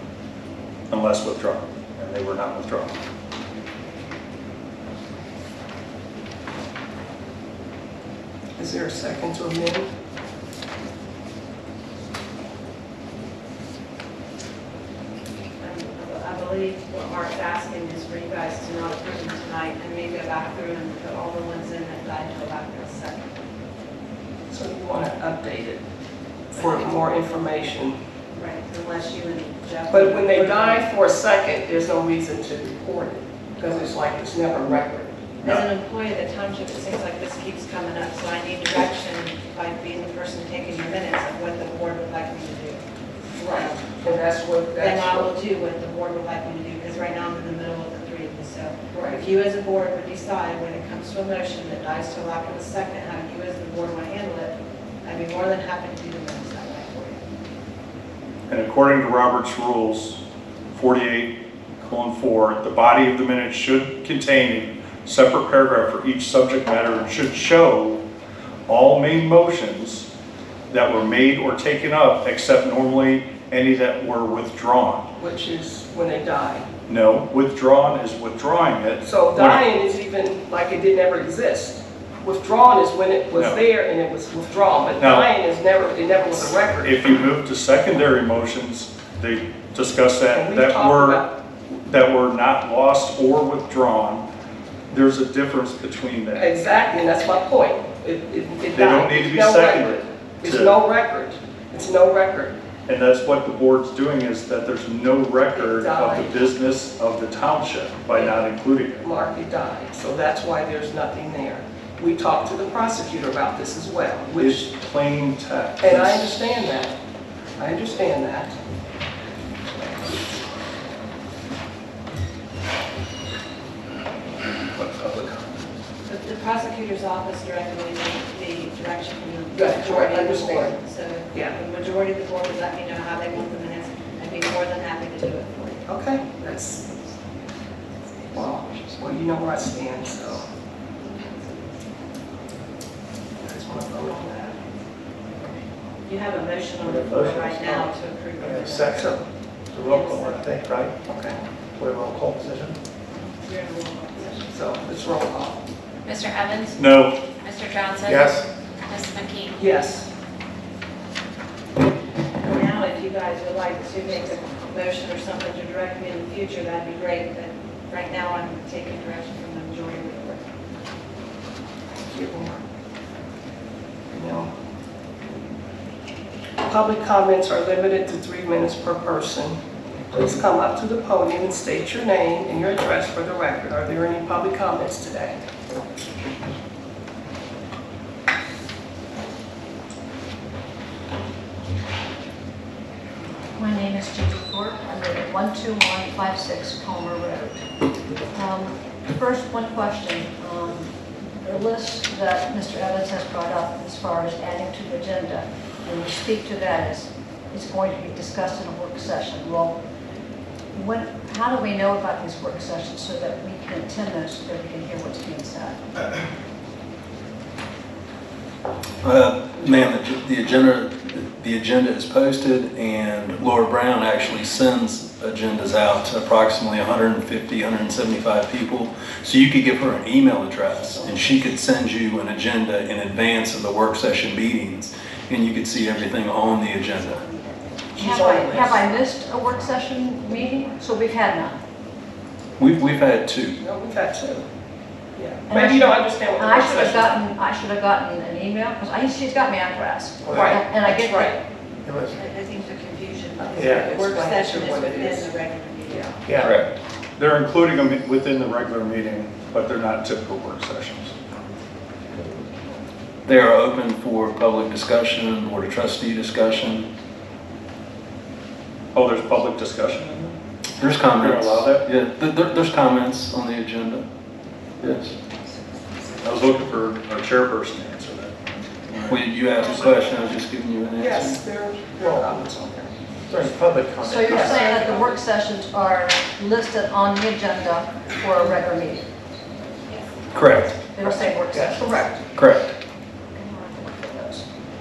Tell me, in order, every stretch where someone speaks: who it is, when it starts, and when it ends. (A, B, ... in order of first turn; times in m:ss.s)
0:00.9-0:03.0 A
0:08.6-0:09.9 B
0:15.6-0:23.3 C
0:24.5-0:25.8 B
0:26.5-0:28.0 B
0:26.5-0:27.2 C
0:28.3-0:30.8 C
0:29.9-0:35.6 B
0:35.4-0:42.8 C
0:43.4-0:45.3 B
0:44.7-0:57.2 C
0:48.9-0:49.2 B
0:58.5-1:00.2 A
1:00.7-1:08.0 A
1:08.7-1:10.1 A
1:10.7-1:15.1 A
1:15.2-1:16.6 B
1:16.9-1:19.6 A
1:19.0-1:26.9 B
1:23.3-1:23.6 A
1:25.0-1:25.3 A
1:26.8-1:34.2 A
1:30.3-1:31.3 B
1:34.9-1:36.5 A
1:36.4-1:42.6 B
1:38.7-1:40.7 A
1:42.9-1:49.1 A
1:45.5-1:46.4 B
1:48.1-1:48.4 B
1:49.0-1:54.7 B
1:54.4-1:56.4 A
1:55.8-1:57.0 B
1:57.6-1:58.6 B
1:59.7-2:00.3 B
2:04.8-2:05.4 D
2:06.0-2:15.9 C
2:09.5-2:10.7 B
2:15.9-2:16.8 B
2:18.3-2:20.5 B
2:23.4-2:24.6 B
2:26.0-2:29.1 C
2:26.8-2:31.0 E
2:29.0-2:29.2 B
2:29.9-2:30.5 C
2:31.1-2:31.4 B
2:31.7-2:32.8 E
2:33.1-2:34.5 C
2:34.5-2:35.6 B
2:36.0-2:36.8 F
2:36.8-2:37.1 A
2:37.4-2:39.6 F
2:38.0-2:38.4 E
2:39.6-2:40.1 B
2:42.4-2:50.4 C
2:52.1-2:52.6 B
2:54.1-2:54.5 B
2:56.6-3:05.4 B
3:13.5-3:17.7 G
3:18.3-3:29.8 G
3:30.7-3:35.8 G
3:39.0-3:57.2 D
3:50.9-3:51.4 B
3:57.1-3:57.6 C
3:57.9-3:58.8 B
3:58.0-4:01.6 G
4:02.6-4:03.6 D
4:03.6-4:04.4 B
4:05.1-4:07.2 B
4:05.5-4:11.4 G
4:10.2-4:10.6 E
4:10.3-4:11.4 B
4:11.8-4:12.2 E
4:12.1-4:16.3 C
4:13.4-4:15.3 B
4:13.5-4:14.0 E
4:16.3-4:16.5 E
4:17.2-4:21.1 A
4:23.2-4:26.9 D
4:28.9-4:30.4 A
4:30.8-4:34.0 D
4:31.1-4:31.8 A
4:34.8-4:35.1 D
4:36.2-4:39.2 A
4:39.0-4:41.4 D
4:41.0-4:42.9 B
4:42.0-4:42.3 E
4:43.3-4:44.9 E
4:44.0-4:49.0 G
4:44.3-4:45.2 B
4:50.3-4:50.8 D
4:50.6-4:52.2 G
4:51.0-4:52.0 E
4:52.3-4:52.7 D
4:53.3-4:54.4 G